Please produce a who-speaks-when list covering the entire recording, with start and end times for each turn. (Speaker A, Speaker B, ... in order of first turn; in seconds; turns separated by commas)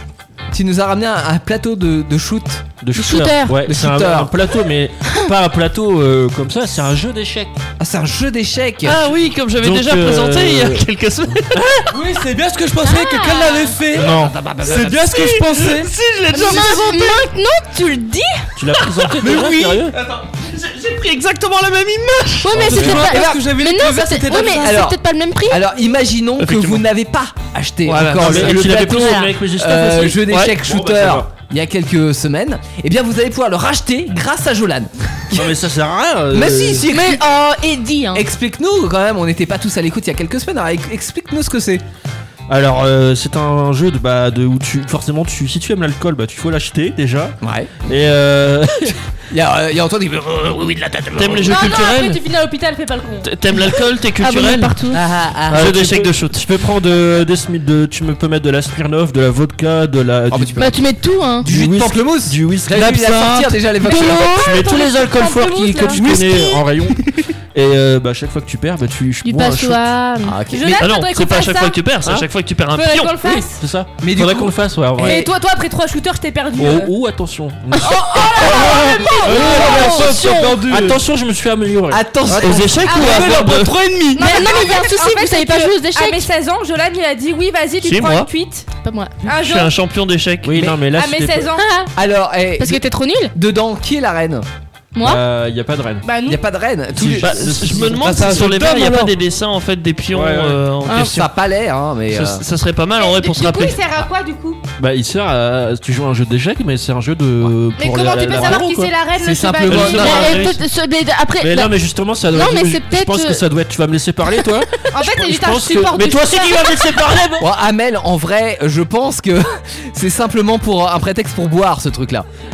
Speaker A: 0.5-2.7, Speaker B: 2.8-7.5, Speaker C: 2.9-3.6, Speaker A: 3.6-4.3, Speaker A: 7.8-9.0, Speaker D: 8.8-11.8, Speaker B: 9.6-10.8, Speaker E: 11.9-16.6, Speaker C: 12.8-13.7, Speaker B: 13.9-14.4, Speaker A: 14.0-15.2, Speaker D: 15.7-16.7, Speaker C: 16.3-18.5, Speaker F: 16.8-17.2, Speaker B: 18.6-19.9, Speaker E: 19.2-19.8, Speaker D: 19.9-22.4, Speaker C: 22.4-25.6, Speaker E: 22.6-24.8, Speaker B: 22.6-23.2, Speaker A: 22.8-23.4, Speaker A: 24.4-25.0, Speaker A: 25.5-35.5, Speaker D: 26.4-26.8, Speaker D: 27.9-29.2, Speaker B: 28.0-31.3, Speaker B: 35.3-36.9, Speaker A: 36.3-37.2, Speaker C: 36.9-38.2, Speaker A: 38.1-41.8, Speaker B: 42.5-47.3, Speaker A: 47.4-47.7, Speaker B: 47.9-49.0, Speaker A: 49.3-51.6, Speaker D: 51.1-52.2, Speaker F: 51.4-53.3, Speaker D: 53.2-54.7, Speaker C: 54.2-55.0, Speaker A: 54.9-55.8, Speaker D: 55.5-56.4, Speaker B: 55.5-60.8, Speaker A: 60.3-60.7, Speaker C: 60.6-61.5, Speaker B: 61.4-69.9, Speaker A: 61.4-64.4, Speaker C: 63.8-66.5, Speaker F: 64.5-66.1, Speaker C: 69.2-70.4, Speaker A: 70.2-70.8, Speaker F: 70.5-71.8, Speaker D: 70.8-73.3, Speaker F: 72.7-73.6, Speaker B: 73.4-75.2, Speaker A: 74.0-75.3, Speaker F: 75.0-76.9, Speaker B: 76.6-82.1, Speaker F: 77.8-80.0, Speaker C: 78.4-80.6, Speaker E: 79.3-81.0, Speaker A: 81.9-83.0, Speaker E: 82.3-84.2, Speaker D: 82.3-83.7, Speaker F: 82.8-83.4, Speaker F: 84.1-88.7, Speaker C: 84.2-86.3, Speaker D: 87.8-88.3, Speaker C: 88.8-89.2, Speaker F: 89.2-89.7, Speaker D: 89.3-90.5, Speaker B: 90.4-91.5, Speaker F: 90.8-91.6, Speaker C: 91.6-91.9, Speaker A: 91.9-92.8, Speaker C: 92.6-93.3, Speaker A: 93.3-94.5, Speaker C: 95.0-95.2, Speaker B: 95.0-96.1, Speaker F: 96.0-96.4, Speaker A: 96.2-97.8, Speaker B: 96.9-98.5, Speaker D: 97.2-101.3, Speaker E: 97.9-99.1, Speaker B: 100.1-100.6, Speaker C: 100.8-101.1, Speaker A: 101.0-102.4, Speaker D: 102.1-104.0, Speaker F: 103.0-104.6, Speaker B: 104.8-108.9, Speaker F: 107.8-110.5, Speaker A: 109.1-110.5, Speaker D: 109.7-110.6, Speaker C: 109.9-111.8, Speaker B: 111.4-117.5, Speaker C: 112.3-113.4, Speaker F: 114.9-117.0, Speaker A: 117.4-122.3